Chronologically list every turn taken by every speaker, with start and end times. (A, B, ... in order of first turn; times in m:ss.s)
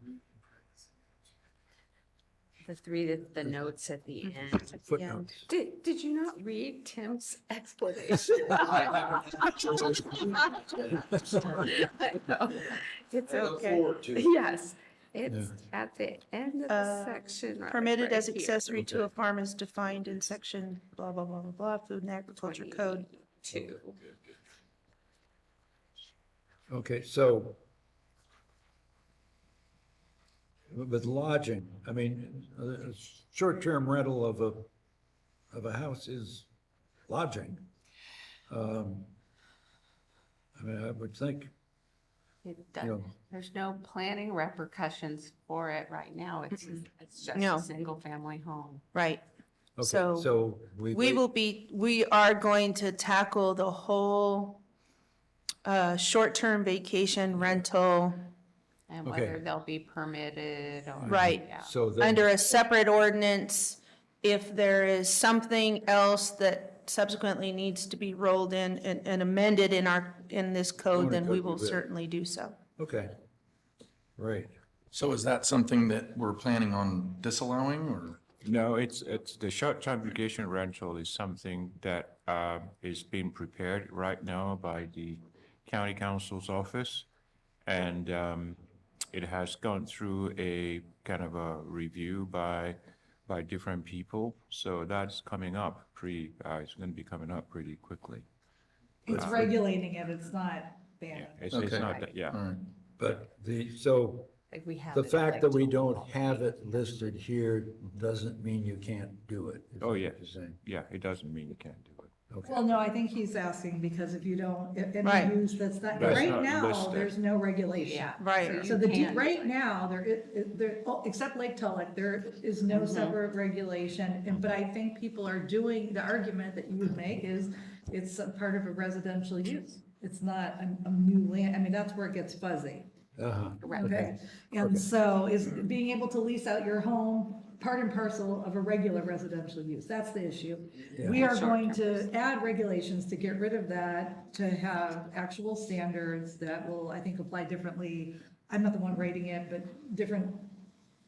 0:02.6-0:19.0 A
0:04.8-0:05.4 B
0:13.3-0:13.9 C
0:15.3-0:15.5 B
0:16.7-0:23.1 C
0:22.3-0:24.1 A
0:26.7-0:27.6 B
0:30.7-0:34.7 B
0:35.5-0:36.5 B
0:37.1-0:37.6 B
0:38.5-0:39.1 B
0:40.6-0:41.5 B
0:42.4-0:48.8 A
0:42.8-0:43.0 B
0:47.3-0:47.6 C
0:48.9-0:49.2 C
0:49.8-0:51.2 B
0:49.8-0:50.3 C
0:50.9-0:54.6 C
0:55.6-0:58.3 C
0:58.9-1:01.8 A
0:59.0-0:59.4 B
1:01.0-1:02.2 B
1:01.0-1:01.4 C
1:02.0-1:12.6 C
1:10.9-1:11.8 B
1:12.8-1:13.1 B
1:14.2-1:14.5 B
1:14.9-1:18.2 D
1:18.4-1:27.1 E
1:27.6-1:38.3 E
1:39.0-1:41.4 F
1:39.1-1:39.5 E
1:39.1-1:39.6 B
1:41.1-1:42.4 E
1:41.5-1:42.6 D
1:41.7-1:42.2 A
1:43.0-1:44.3 B
1:44.5-1:47.1 A
1:44.9-1:50.6 B
1:49.8-1:52.1 E
1:52.3-1:52.6 B
1:52.4-2:12.9 F
1:55.0-1:55.4 C
1:55.9-1:57.1 E
1:56.0-1:56.3 B
1:57.8-1:59.5 A
1:58.2-1:58.7 C
2:02.7-2:03.2 A
2:13.2-2:14.0 B
2:13.6-2:14.2 A
2:13.7-2:30.6 F
2:14.6-2:14.9 B
2:20.9-2:21.3 B
2:21.1-2:22.1 A